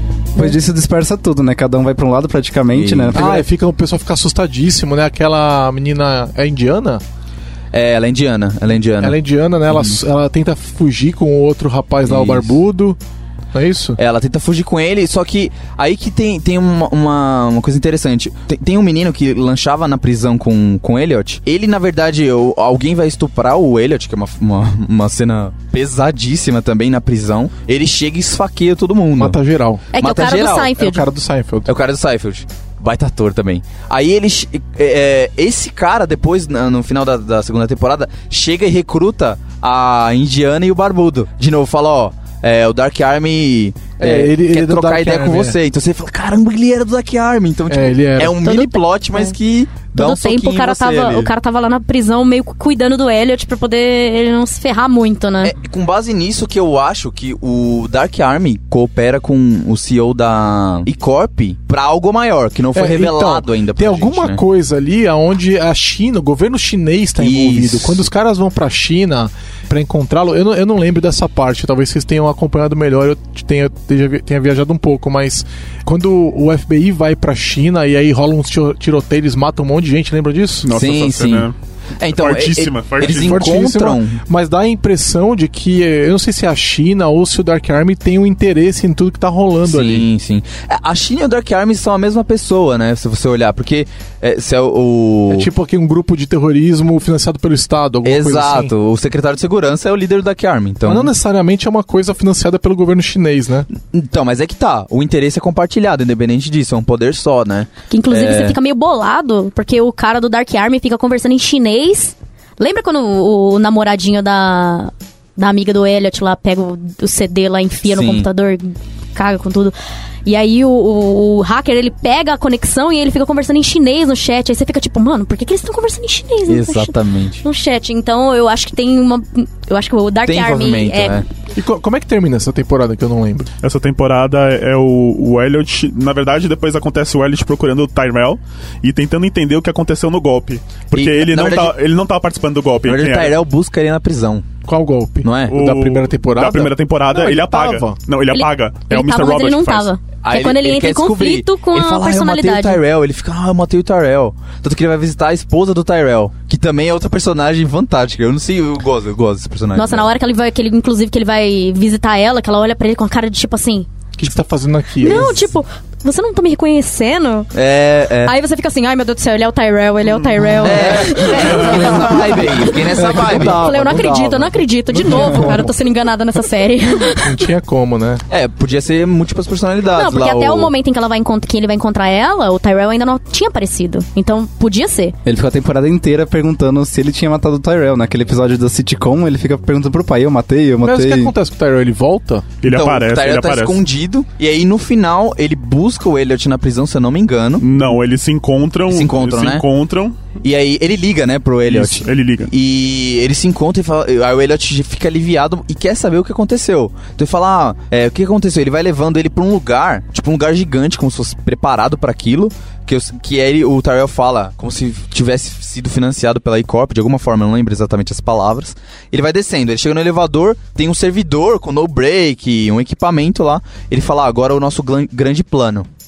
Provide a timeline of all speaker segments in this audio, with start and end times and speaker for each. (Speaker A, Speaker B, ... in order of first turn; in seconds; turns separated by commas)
Speaker A: 0.4-3.4, Speaker B: 2.7-3.5, Speaker C: 3.1-7.0, Speaker B: 7.7-9.2, Speaker C: 9.0-13.0, Speaker B: 9.7-10.0, Speaker B: 12.1-12.6, Speaker C: 13.5-14.0, Speaker B: 14.0-29.4, Speaker C: 29.2-29.9, Speaker D: 29.9-31.1, Speaker B: 30.0-30.9, Speaker C: 30.8-31.7, Speaker B: 31.7-51.3, Speaker C: 44.0-45.6, Speaker C: 47.7-48.4, Speaker D: 48.4-49.3, Speaker D: 49.9-55.5, Speaker B: 55.4-64.4, Speaker C: 62.7-80.7, Speaker B: 67.2-68.0, Speaker E: 80.6-81.5, Speaker B: 80.7-81.5, Speaker B: 82.0-84.2, Speaker E: 82.1-83.5, Speaker C: 83.0-90.1, Speaker B: 89.7-95.5, Speaker C: 95.3-98.7, Speaker B: 98.0-101.1, Speaker C: 100.8-103.7, Speaker B: 103.8-108.6, Speaker D: 107.9-119.7, Speaker B: 117.9-118.3, Speaker D: 120.2-131.2, Speaker B: 126.5-127.4, Speaker B: 130.2-131.3, Speaker C: 131.6-133.5, Speaker E: 133.6-143.4, Speaker B: 140.9-141.7, Speaker B: 142.9-144.5, Speaker C: 144.7-148.0, Speaker B: 145.2-145.6, Speaker E: 145.5-149.9, Speaker D: 148.3-152.8, Speaker B: 150.2-160.1, Speaker D: 159.7-163.9, Speaker C: 164.2-165.5, Speaker D: 165.0-167.5, Speaker B: 167.5-168.3, Speaker D: 168.2-177.3, Speaker B: 170.6-173.7, Speaker C: 172.8-175.7, Speaker C: 177.2-178.2, Speaker B: 178.3-180.7, Speaker D: 179.9-185.2, Speaker A: 185.3-191.3, Speaker C: 190.8-192.6, Speaker E: 192.6-193.8, Speaker B: 192.6-197.7, Speaker E: 197.6-200.3, Speaker B: 198.9-199.7, Speaker B: 200.4-225.9, Speaker E: 201.7-202.5